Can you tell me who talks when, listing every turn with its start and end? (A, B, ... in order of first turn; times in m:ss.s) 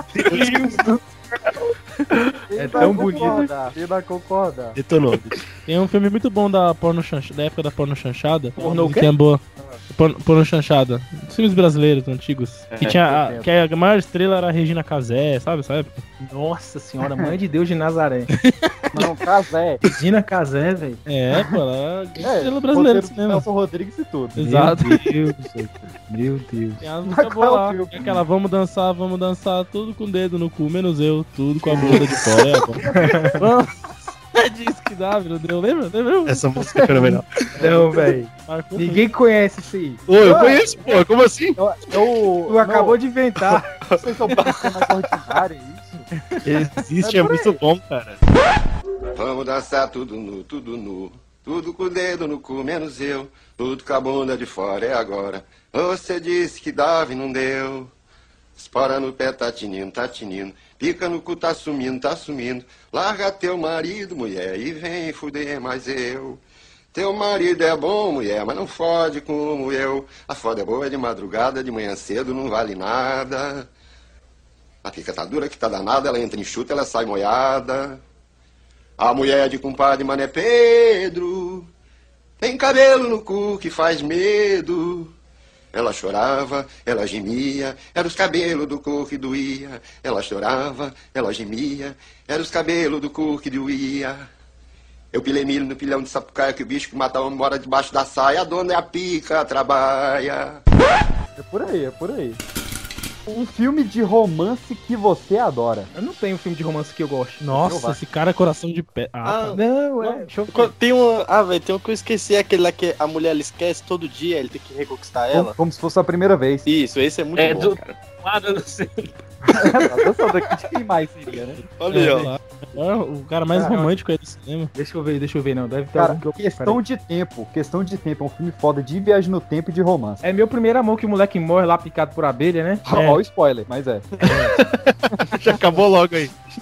0:00.2-0:00.8 A
0:00.3-0:01.0 B
0:00.4-0:00.7 C
0:02.5-0:04.8 B
0:02.6-0:03.5 C
0:04.8-0:05.4 A
0:05.7-0:16.0 D
0:08.6-0:09.8 C
0:12.7-0:13.0 E
0:12.8-0:13.5 B
0:16.2-0:18.3 C
0:17.0-0:17.3 B
0:18.4-0:18.7 D
0:18.9-0:19.8 B
0:19.8-0:21.0 C
0:21.1-0:23.5 D
0:22.2-0:24.4 B
0:24.4-0:25.2 D
0:24.4-0:26.8 C
0:26.8-0:32.8 D
0:27.0-0:28.2 B
0:32.8-0:33.3 B
0:32.9-0:33.4 C
0:33.4-0:33.8 D
0:34.3-0:36.5 D
0:36.3-0:37.3 A
0:36.6-0:38.2 B
0:37.6-0:40.0 C
0:38.3-0:39.0 D
0:40.1-0:41.6 A
0:40.2-0:41.0 B
0:41.6-0:43.0 B
0:42.5-0:43.7 C
0:43.9-0:44.7 F
0:44.0-0:46.0 B
0:46.4-0:48.2 A
0:47.0-0:47.5 B
0:49.2-0:57.9 G
0:58.6-1:06.4 G
1:06.9-1:13.7 G
1:14.8-1:18.0 G
1:19.0-1:21.7 G
1:22.4-1:25.1 G
1:25.7-1:34.3 G
1:35.1-1:40.6 G
1:41.4-1:42.4 B
1:43.3-1:45.9 B
1:45.9-1:47.4 C
1:47.4-1:50.2 D
1:47.5-1:48.0 B
1:49.2-1:49.6 F
1:49.6-1:50.7 C
1:50.5-1:55.6 F
1:55.3-1:56.7 B
1:56.7-1:58.0 F
1:57.4-1:59.2 E
1:59.6-2:02.3 B
2:01.8-2:02.3 F
2:01.9-2:04.7 D
2:03.5-2:03.9 C
2:04.8-2:06.8 C
2:06.0-2:10.2 B
2:10.2-2:12.8 C
2:12.9-2:14.1 B
2:12.9-2:13.2 D
2:14.2-2:16.4 A